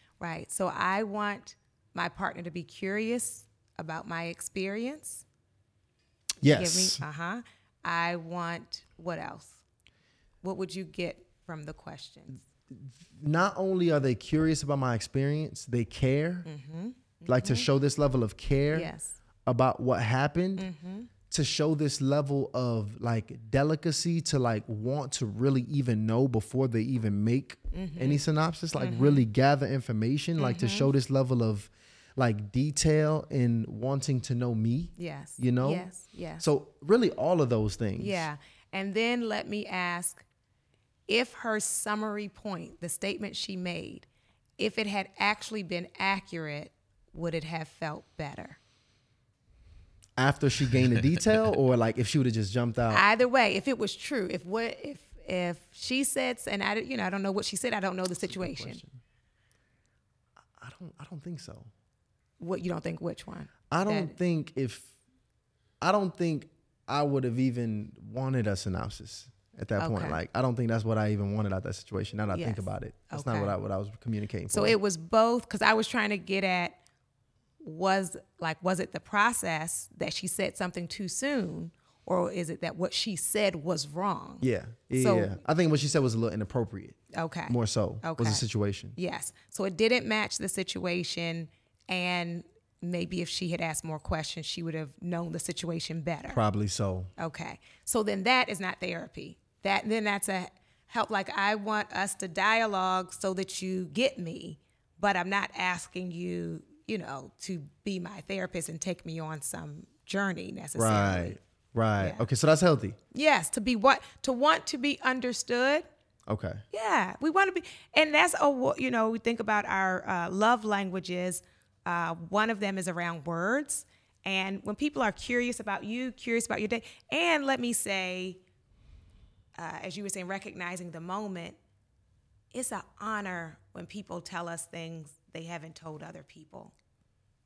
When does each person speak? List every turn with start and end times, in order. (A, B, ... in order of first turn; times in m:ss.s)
0:00.2-0:05.2 A
0:06.4-0:07.0 B
0:06.5-0:09.6 A
0:10.4-0:12.4 A
0:12.7-0:16.5 B
0:16.4-0:17.7 A
0:17.2-0:18.9 B
0:18.7-0:19.2 A
0:19.4-0:20.7 B
0:20.6-0:21.1 A
0:21.3-0:38.3 B
0:27.7-0:28.2 A
0:28.8-0:29.2 A
0:30.4-0:30.9 A
0:35.0-0:36.4 A
0:38.0-0:40.2 A
0:41.1-0:44.1 A
0:44.6-0:48.6 A
0:50.2-0:53.0 B
0:52.9-0:58.8 A
0:58.2-0:59.0 B
1:00.6-1:01.7 B
1:02.4-1:04.2 A
1:03.7-1:04.9 B
1:05.8-1:14.8 B
1:09.8-1:10.2 A
1:12.3-1:13.5 A
1:14.5-1:16.8 A
1:17.6-1:24.4 A
1:24.4-1:28.9 B
1:25.0-1:25.4 A
1:27.1-1:28.4 A
1:29.0-1:36.4 A
1:36.3-1:37.1 B
1:37.2-1:51.4 A
1:50.8-1:53.0 B
1:52.0-1:52.2 A
1:53.1-1:55.8 A
1:56.3-1:56.6 B
1:56.7-2:08.4 A
2:09.6-2:11.6 A
2:12.5-2:16.7 A